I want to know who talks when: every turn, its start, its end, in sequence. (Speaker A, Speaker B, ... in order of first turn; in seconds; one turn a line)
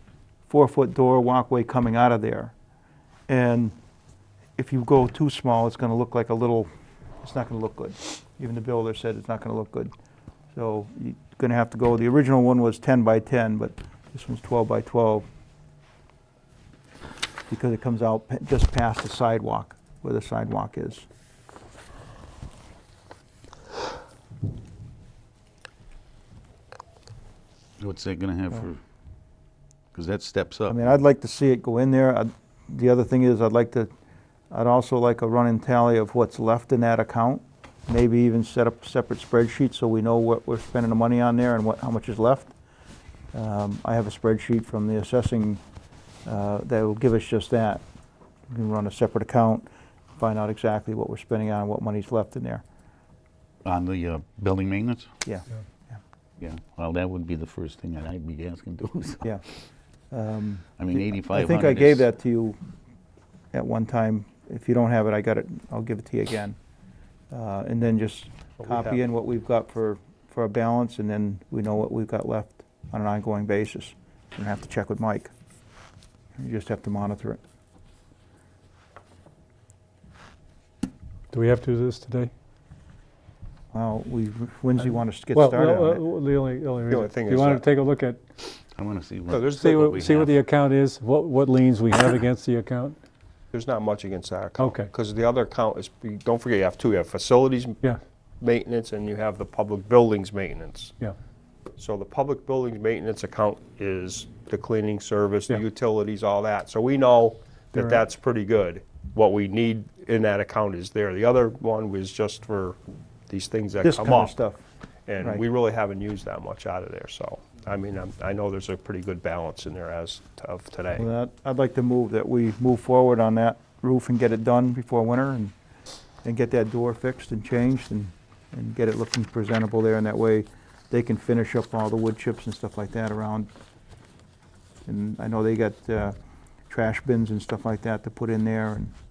Speaker A: 0.5-2.5
Speaker A: 3.3-3.8
Speaker A: 4.6-6.7
Speaker A: 7.2-9.9
Speaker A: 10.5-15.3
Speaker A: 17.5-21.1
Speaker B: 27.8-28.8
Speaker B: 29.9-30.9
Speaker A: 30.7-33.9
Speaker A: 34.5-42.5
Speaker A: 43.3-45.6
Speaker A: 46.3-47.8
Speaker A: 48.5-49.7
Speaker A: 50.2-52.6
Speaker B: 53.6-55.1
Speaker A: 55.2-56.0
Speaker B: 56.4-59.3
Speaker A: 60.1-62.6
Speaker B: 60.8-62.1
Speaker A: 63.5-66.6
Speaker A: 67.3-75.3
Speaker C: 68.6-68.9
Speaker A: 76.4-77.4
Speaker D: 81.3-82.3
Speaker A: 83.7-86.0
Speaker D: 85.3-88.2
Speaker C: 86.9-87.7
Speaker B: 88.8-90.4
Speaker C: 89.3-89.9
Speaker D: 89.4-93.0
Speaker C: 93.5-97.8
Speaker D: 94.6-94.9
Speaker C: 98.4-100.9
Speaker C: 101.8-112.8
Speaker C: 113.3-114.3
Speaker A: 113.8-114.6
Speaker C: 115.1-121.1
Speaker A: 121.0-125.5
Speaker A: 126.2-133.5
Speaker A: 134.9-136.2
Speaker A: 136.7-138.9